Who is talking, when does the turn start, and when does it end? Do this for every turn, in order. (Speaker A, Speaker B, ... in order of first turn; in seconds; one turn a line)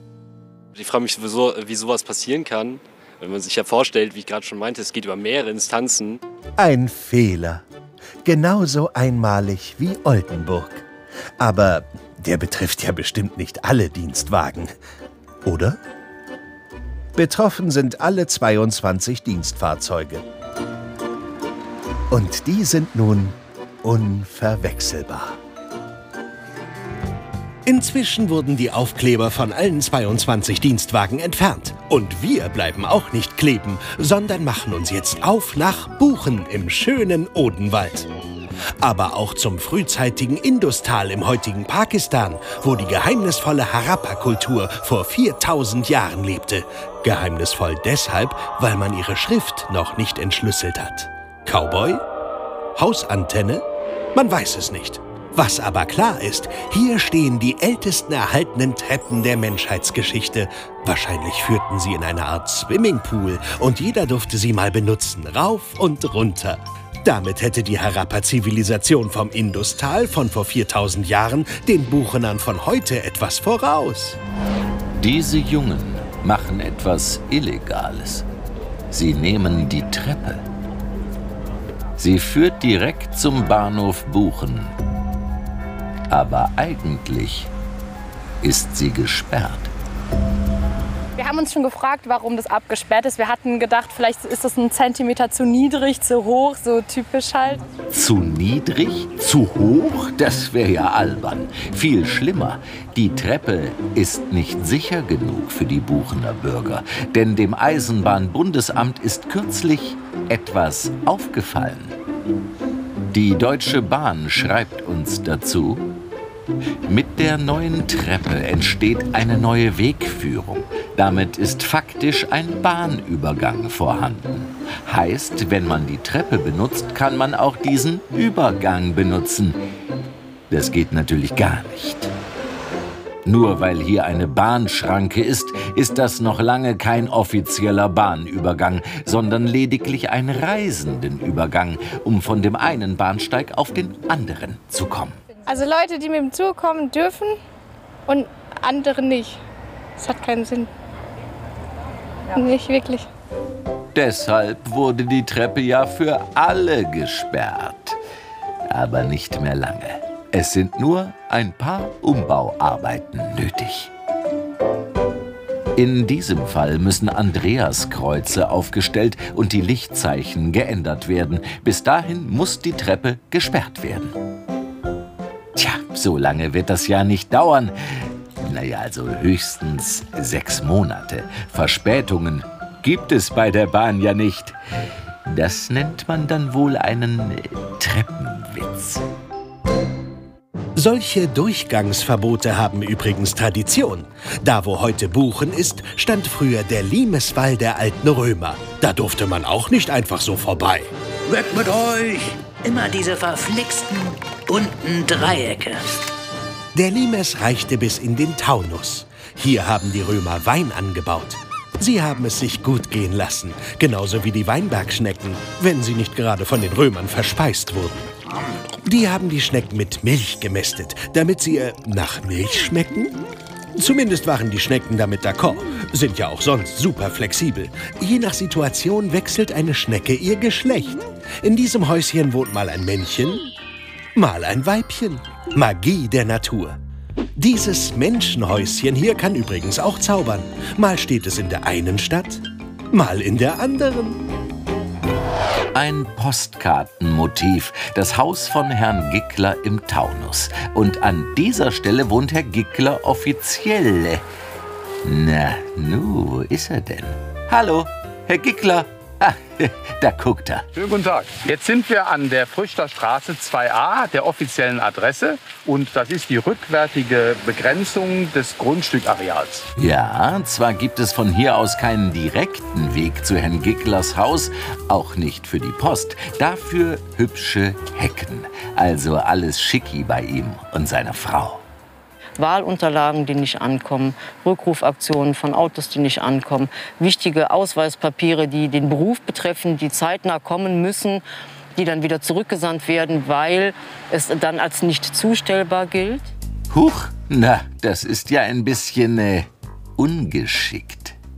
Speaker A: 0.8-6.2
Speaker B: 6.6-7.6
Speaker B: 8.2-10.9
Speaker B: 11.4-14.7
Speaker B: 15.4-15.8
Speaker B: 17.2-20.2
Speaker B: 22.1-25.4
Speaker B: 27.6-38.1
Speaker B: 38.8-52.0
Speaker B: 52.8-74.2
Speaker C: 75.0-78.2
Speaker C: 78.9-80.4
Speaker C: 82.0-84.7
Speaker C: 86.1-87.5
Speaker C: 88.4-89.7
Speaker D: 91.2-97.6
Speaker C: 97.9-112.0
Speaker C: 113.1-115.8
Speaker C: 116.9-129.6
Speaker C: 130.5-132.1
Speaker C: 133.3-145.2
Speaker D: 145.5-147.4
Speaker D: 148.1-149.4
Speaker D: 150.0-150.7
Speaker D: 152.3-153.1
Speaker C: 153.9-158.0
Speaker C: 158.7-163.9
Speaker C: 165.8-174.2
Speaker C: 175.6-184.6
Speaker C: 185.3-189.0
Speaker B: 190.8-200.9
Speaker E: 201.3-205.9
Speaker B: 206.7-218.1
Speaker B: 218.8-223.2
Speaker B: 223.8-233.4
Speaker B: 234.2-236.8
Speaker B: 237.4-244.2
Speaker C: 245.8-254.2
Speaker C: 255.0-260.7
Speaker F: 260.8-269.7
Speaker C: 269.8-281.6
Speaker G: 282.4-291.2
Speaker G: 291.8-296.3
Speaker C: 296.7-301.1